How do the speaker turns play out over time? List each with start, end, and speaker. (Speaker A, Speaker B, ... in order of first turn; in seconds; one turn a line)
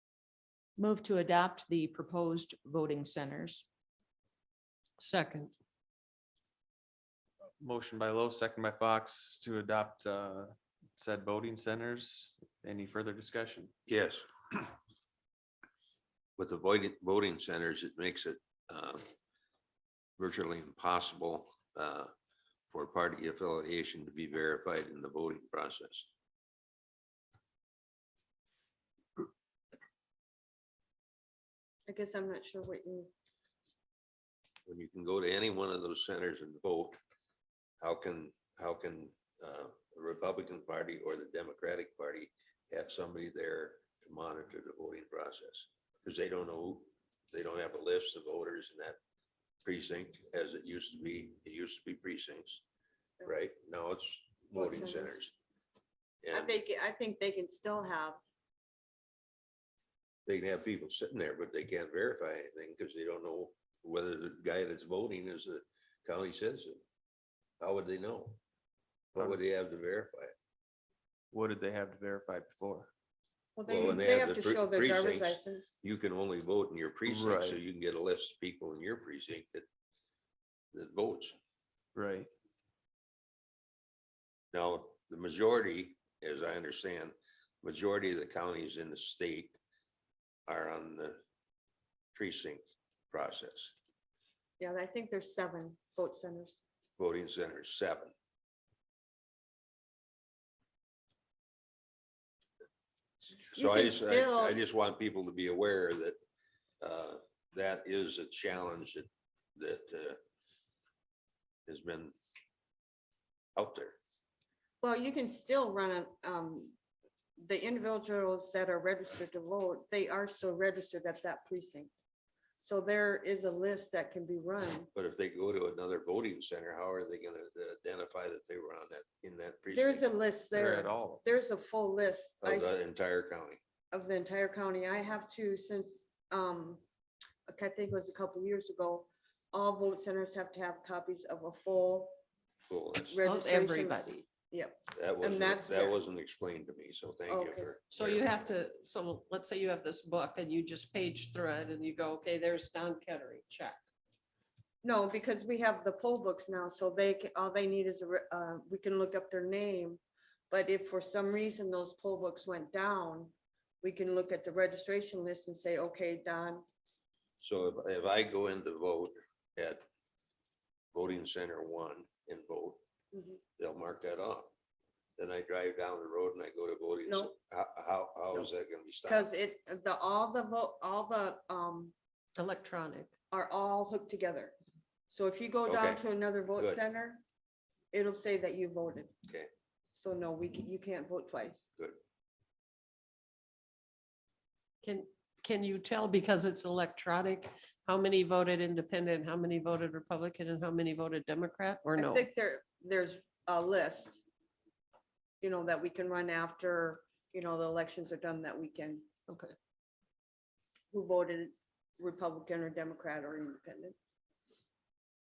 Speaker A: 0.8-3.6
Speaker B: 5.0-5.5
Speaker C: 7.6-13.7
Speaker D: 13.9-14.3
Speaker D: 16.4-19.0
Speaker D: 20.2-22.1
Speaker D: 22.7-26.1
Speaker E: 31.9-33.1
Speaker D: 34.7-37.0
Speaker D: 37.8-49.0
Speaker D: 49.6-52.6
Speaker D: 53.2-55.3
Speaker E: 54.5-55.2
Speaker D: 56.2-56.6
Speaker E: 56.3-58.2
Speaker D: 60.2-66.8
Speaker D: 67.6-68.4
Speaker D: 69.1-70.3
Speaker C: 71.3-72.9
Speaker E: 73.5-75.8
Speaker D: 73.7-79.7
Speaker C: 77.0-77.6
Speaker D: 80.7-81.4
Speaker C: 81.9-82.3
Speaker D: 84.5-89.6
Speaker D: 90.5-91.2
Speaker D: 92.1-93.7
Speaker E: 94.6-96.6
Speaker D: 97.0-98.1
Speaker D: 103.4-106.2
Speaker E: 103.5-104.6
Speaker D: 106.8-110.2
Speaker D: 111.7-112.1
Speaker D: 113.5-114.0
Speaker E: 114.8-116.7
Speaker E: 117.4-121.9
Speaker E: 122.6-124.9
Speaker D: 124.9-130.1
Speaker E: 129.7-132.7
Speaker C: 130.5-131.2
Speaker D: 132.4-133.6
Speaker E: 133.9-136.8
Speaker E: 137.5-142.2
Speaker D: 142.7-143.2
Speaker E: 143.1-146.0
Speaker B: 143.2-144.2
Speaker D: 144.9-148.2
Speaker E: 147.3-147.7
Speaker B: 147.9-153.8
Speaker E: 154.8-166.6
Speaker D: 167.4-169.8
Speaker D: 170.9-172.8
Speaker E: 173.1-173.4
Speaker D: 173.6-174.5
Speaker D: 175.2-179.3
Speaker E: 179.1-181.9
Speaker B: 182.3-183.1
Speaker E: 183.3-184.5
Speaker E: 185.1-187.2
Speaker D: 185.7-186.0
Speaker E: 187.9-189.1
Speaker E: 189.9-191.7
Speaker B: 194.8-202.2
Speaker E: 202.0-204.2
Speaker E: 205.4-209.1
Speaker B: 209.3-209.5
Speaker E: 210.9-213.9